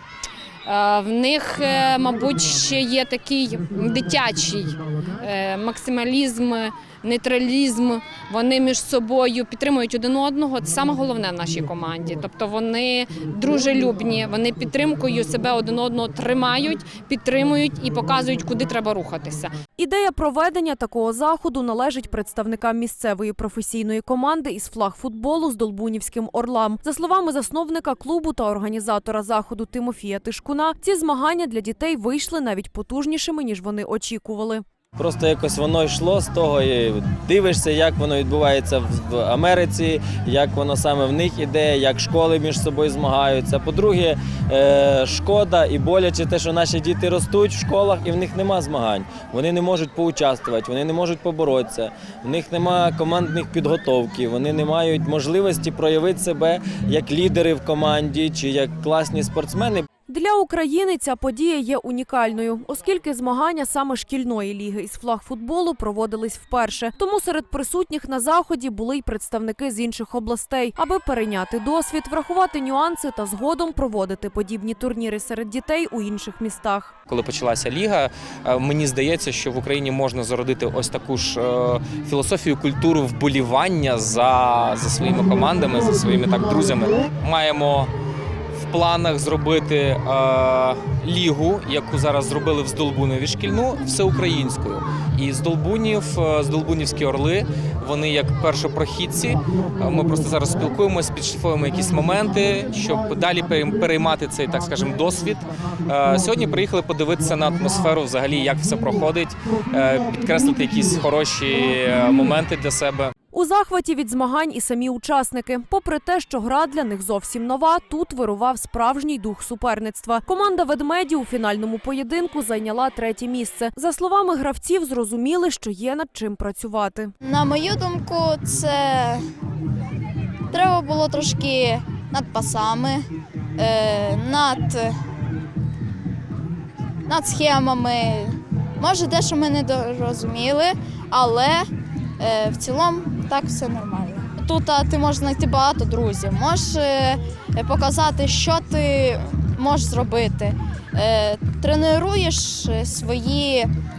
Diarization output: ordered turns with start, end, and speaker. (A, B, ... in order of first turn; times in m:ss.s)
0:00.7-0:19.6 A
0:19.8-0:34.6 B
0:35.0-0:59.9 C
1:00.1-1:17.0 B
1:17.1-1:27.9 D
1:28.6-1:53.1 D
1:53.3-2:07.1 B
2:07.2-2:09.2 E
2:10.5-2:13.0 E
2:13.6-2:15.0 E
2:17.1-2:21.6 E
2:22.2-2:33.7 E